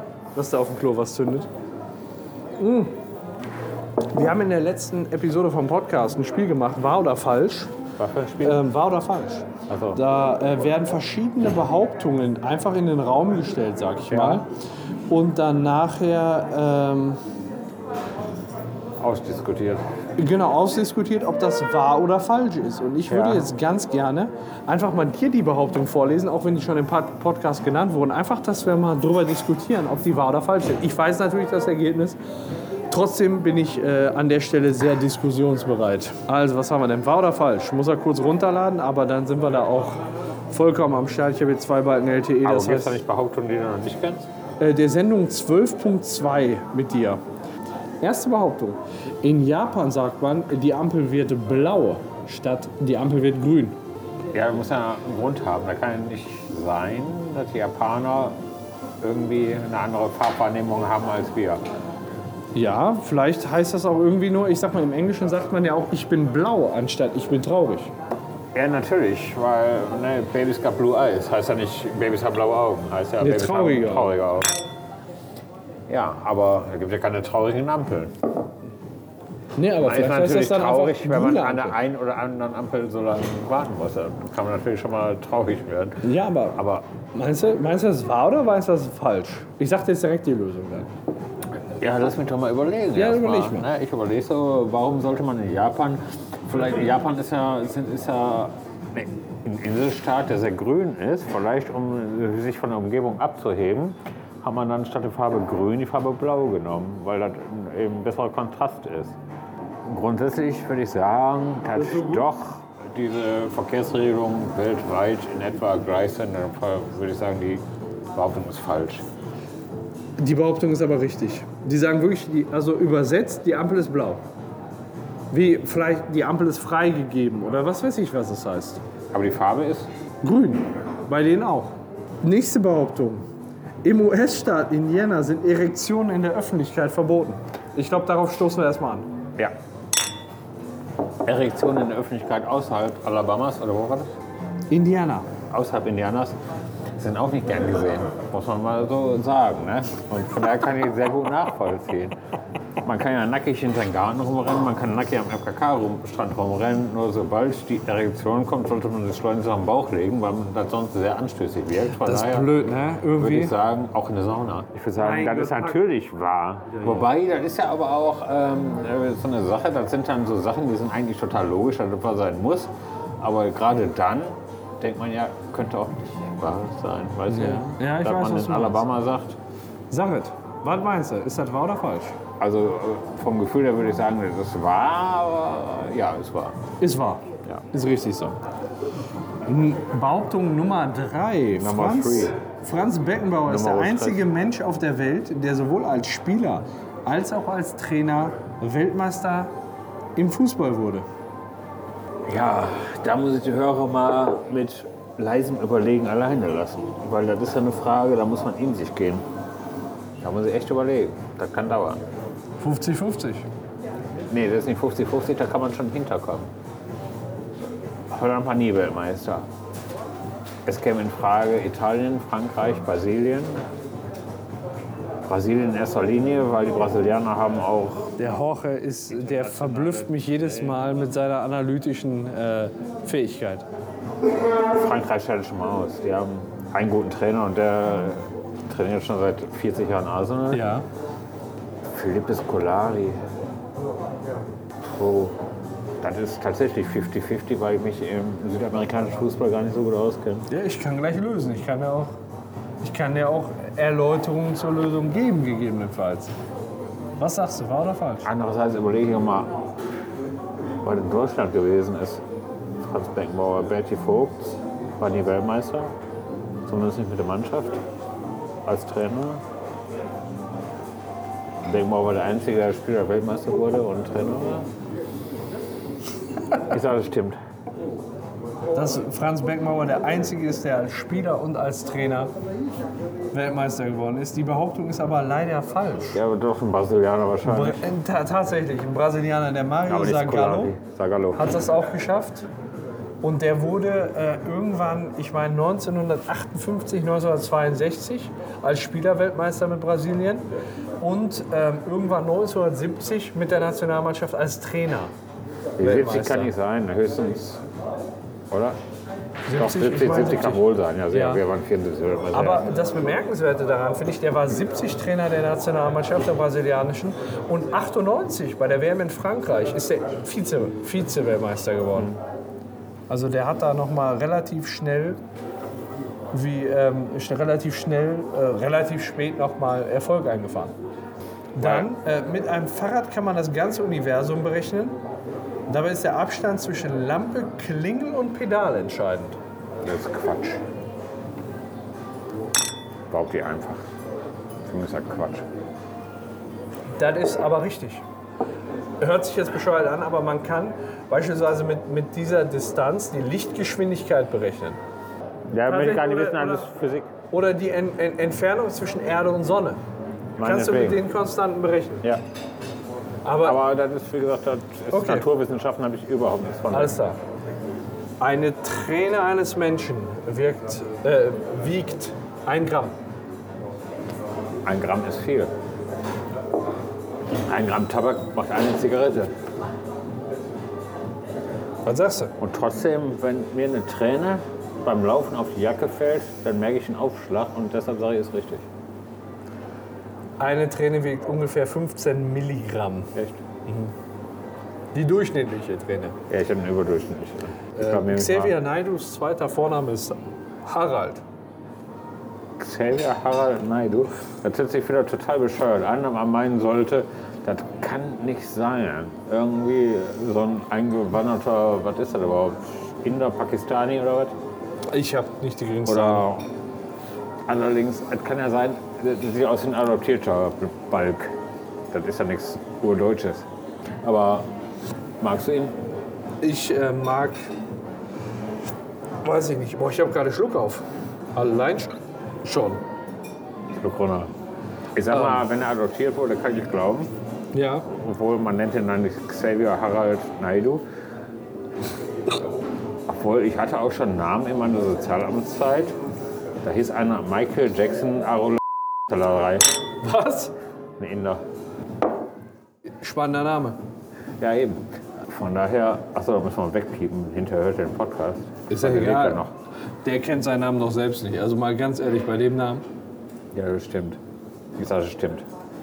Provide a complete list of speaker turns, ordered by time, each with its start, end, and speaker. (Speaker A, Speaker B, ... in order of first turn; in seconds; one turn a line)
Speaker A: 0.3-1.5
Speaker A: 2.6-3.0
Speaker A: 4.1-7.7
Speaker B: 8.0-8.7
Speaker A: 8.4-14.5
Speaker B: 9.7-10.0
Speaker B: 14.1-14.4
Speaker A: 15.1-17.2
Speaker B: 19.0-19.9
Speaker A: 20.2-32.2
Speaker B: 23.1-23.5
Speaker A: 32.9-43.0
Speaker B: 42.4-44.3
Speaker A: 44.6-47.2
Speaker A: 48.0-53.8
Speaker B: 54.3-58.4
Speaker B: 59.0-61.6
Speaker A: 62.5-67.9
Speaker B: 68.5-74.5
Speaker A: 73.2-74.2
Speaker B: 75.9-78.2
Speaker A: 79.6-81.8
Speaker B: 79.8-86.0
Speaker A: 86.0-90.9
Speaker B: 86.6-86.9
Speaker B: 91.8-109.2
Speaker A: 93.0-93.7
Speaker B: 109.9-119.0
Speaker A: 111.7-112.3
Speaker A: 120.2-124.2
Speaker A: 125.3-128.8
Speaker B: 129.1-129.9
Speaker A: 130.2-133.3
Speaker A: 133.8-139.1
Speaker B: 141.3-144.1
Speaker A: 144.7-145.3
Speaker B: 145.5-146.4
Speaker B: 147.0-152.2
Speaker B: 152.8-162.5
Speaker A: 162.0-163.6
Speaker B: 163.2-179.4
Speaker A: 165.0-165.8
Speaker A: 166.8-167.1
Speaker A: 177.3-178.9
Speaker A: 179.9-182.2
Speaker B: 182.4-186.6
Speaker A: 186.8-188.4
Speaker A: 189.5-199.5
Speaker B: 191.6-192.4
Speaker B: 193.5-194.2
Speaker A: 200.2-201.1
Speaker B: 202.3-209.3
Speaker B: 210.2-212.0
Speaker A: 212.6-213.5
Speaker B: 214.3-216.5
Speaker B: 218.1-219.5
Speaker B: 220.7-223.6
Speaker B: 225.3-228.1
Speaker A: 228.2-233.7
Speaker B: 229.1-230.7
Speaker B: 234.8-240.7
Speaker A: 240.5-240.9
Speaker B: 241.9-243.2
Speaker B: 245.0-245.4
Speaker B: 246.0-250.5
Speaker A: 250.5-252.1
Speaker A: 252.8-256.3
Speaker A: 257.2-258.3
Speaker B: 258.2-259.5
Speaker B: 260.8-262.2
Speaker B: 262.9-265.9
Speaker B: 266.7-267.8
Speaker B: 268.7-269.4
Speaker B: 271.6-274.7
Speaker B: 276.7-277.4
Speaker A: 278.7-282.3
Speaker A: 283.3-286.2
Speaker B: 286.1-287.9
Speaker A: 287.4-290.8
Speaker B: 289.9-291.4
Speaker A: 291.4-292.5
Speaker A: 293.2-300.4
Speaker A: 301.0-305.1
Speaker A: 305.8-306.5
Speaker B: 305.8-307.6
Speaker B: 308.5-308.8
Speaker A: 309.5-311.4
Speaker B: 309.5-312.7
Speaker A: 312.3-322.1
Speaker A: 323.1-325.2
Speaker A: 326.3-330.7
Speaker A: 331.6-335.0
Speaker B: 331.6-331.9
Speaker A: 335.7-339.4
Speaker B: 339.8-340.6
Speaker B: 343.1-343.8
Speaker B: 344.6-345.4
Speaker A: 347.0-348.0
Speaker A: 349.0-354.8
Speaker B: 355.5-357.1
Speaker A: 355.7-356.7
Speaker A: 357.3-359.8
Speaker B: 360.4-361.1
Speaker A: 360.4-362.0
Speaker A: 363.2-363.6
Speaker B: 363.4-367.0
Speaker A: 364.9-365.3
Speaker A: 366.7-367.2
Speaker A: 368.2-372.9
Speaker B: 374.6-375.5
Speaker B: 377.5-379.3
Speaker A: 381.9-382.3
Speaker B: 382.4-388.7
Speaker A: 390.4-393.1
Speaker B: 393.1-393.4
Speaker A: 393.7-393.9
Speaker A: 394.9-396.2
Speaker B: 396.3-398.6
Speaker A: 397.8-401.2
Speaker B: 402.6-414.4
Speaker A: 414.9-416.3
Speaker B: 415.9-416.5
Speaker B: 417.5-421.4
Speaker B: 421.9-423.5
Speaker B: 424.0-424.5
Speaker B: 425.2-425.8
Speaker A: 426.4-427.5
Speaker A: 429.2-431.9
Speaker A: 432.4-432.8
Speaker B: 433.7-434.3
Speaker B: 434.9-437.1
Speaker A: 435.1-435.4
Speaker A: 437.5-437.9
Speaker B: 437.9-440.8
Speaker B: 443.1-445.9
Speaker B: 446.6-449.8
Speaker A: 450.0-450.6
Speaker B: 451.0-451.4
Speaker A: 453.0-453.8
Speaker B: 454.4-459.5
Speaker A: 458.7-459.4
Speaker A: 460.0-462.9
Speaker B: 463.5-464.2
Speaker B: 464.8-465.5